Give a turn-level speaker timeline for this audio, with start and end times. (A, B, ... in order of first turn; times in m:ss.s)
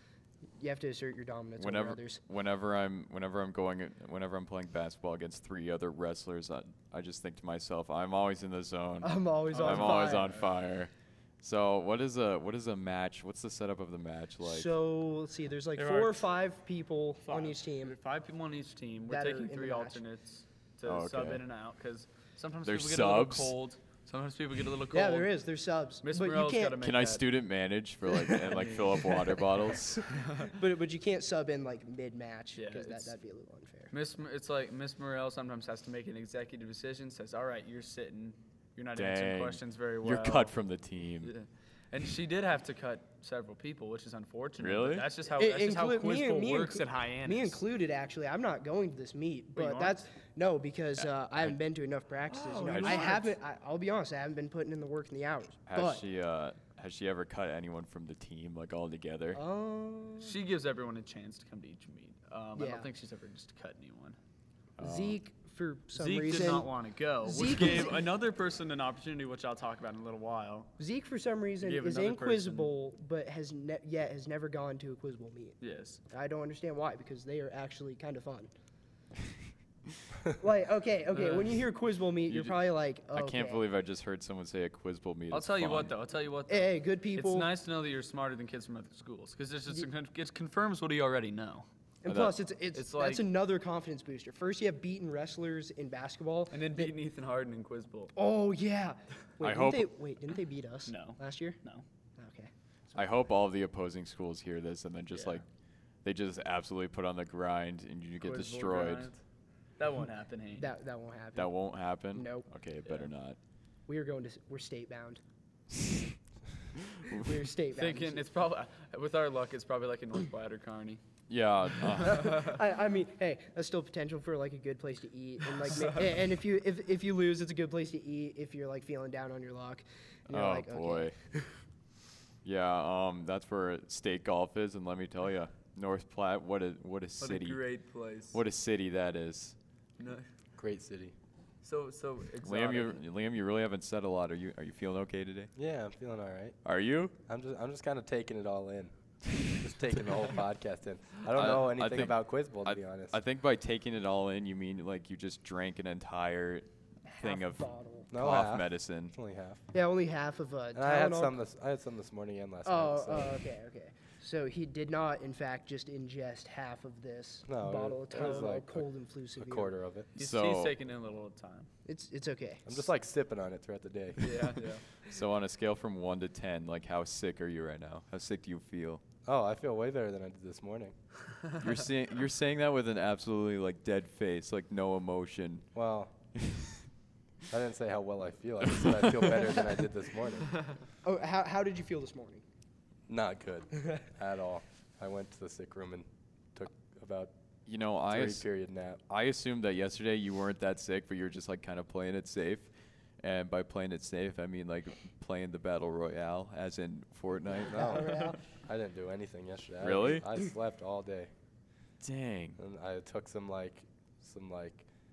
0:00.6-0:02.2 A
0:01.6-0:14.7 B
0:09.0-0:10.3 A
0:09.5-0:10.5 C
0:14.4-0:17.9 A
0:15.8-0:16.3 C
0:17.2-0:25.3 C
0:19.1-0:20.0 A
0:20.8-0:21.4 B
0:22.6-0:23.5 B
0:24.9-0:26.8 A
0:26.0-0:27.2 C
0:26.8-0:30.0 B
0:28.4-0:29.0 C
0:30.1-0:30.5 C
0:30.4-0:33.9 A
0:32.5-0:33.1 C
0:33.9-0:40.6 C
0:39.0-0:41.3 B
0:41.2-0:47.6 C
0:44.6-0:45.1 B
0:45.3-0:56.0 A
0:49.5-0:50.0 C
0:52.3-0:53.3 C
0:52.6-0:53.2 B
0:55.6-0:59.4 B
0:59.3-1:00.4 A
1:00.2-1:04.2 C
1:02.6-1:02.9 A
1:04.8-1:05.2 B
1:04.8-1:06.7 A
1:05.9-1:10.7 C
1:07.2-1:08.0 A
1:10.8-1:15.6 A
1:11.6-1:12.7 C
1:15.6-1:16.0 C
1:16.1-1:18.5 A
1:20.3-1:23.6 A
1:21.1-1:21.5 C
1:22.3-1:22.6 B
1:23.1-1:25.9 B
1:25.3-1:31.6 C
1:26.5-1:27.5 A
1:32.0-1:36.9 A
1:32.1-1:32.4 B
1:32.7-1:33.2 C
1:36.5-1:38.1 C
1:38.1-1:41.6 A
1:39.4-1:39.9 B
1:40.8-1:41.8 C
1:42.2-1:43.0 A
1:42.9-1:45.4 B
1:45.1-1:45.4 C
1:46.0-1:49.1 B
1:48.2-1:49.2 C
1:49.8-1:50.7 C
1:50.6-1:51.5 A
1:51.4-1:53.4 B
1:52.1-1:52.4 A
1:53.9-1:55.2 A
1:57.0-1:58.3 A
1:57.7-2:01.0 C
2:01.3-2:02.5 B
2:02.0-2:02.5 C
2:02.0-2:11.4 A
2:05.6-2:06.1 C
2:10.3-2:11.1 B
2:12.4-2:17.6 B
2:17.2-2:18.4 C
2:18.3-2:19.5 B
2:20.0-2:20.2 C
2:20.6-2:21.1 D
2:21.6-2:23.0 C
2:22.4-2:25.5 B
2:25.6-2:26.6 D
2:26.6-2:27.1 B
2:27.2-2:28.9 D
2:29.5-2:33.2 D
2:31.3-2:39.1 B
2:37.1-2:38.1 A
2:38.1-2:39.6 D
2:39.7-2:41.4 A
2:40.7-2:43.4 D
2:42.6-2:49.7 A
2:47.5-2:48.8 D
2:49.4-2:50.1 D
2:50.2-2:51.7 C
2:50.2-2:50.7 B
2:51.8-2:52.8 A
2:52.6-2:54.5 D
2:54.2-2:54.8 C
2:55.0-2:59.0 B
2:59.2-3:00.9 D
3:01.5-3:05.7 B
3:05.7-3:06.1 D
3:06.4-3:06.8 B
3:07.5-3:10.6 D
3:08.7-3:09.0 B
3:11.0-3:12.4 A
3:13.1-3:17.3 D
3:17.6-3:18.4 B
3:18.1-3:19.0 D
3:19.1-3:22.7 B
3:23.2-3:28.1 B
3:27.6-3:31.3 D
3:27.7-3:28.4 A
3:29.8-3:30.3 B
3:32.0-3:32.6 B
3:32.6-3:34.8 D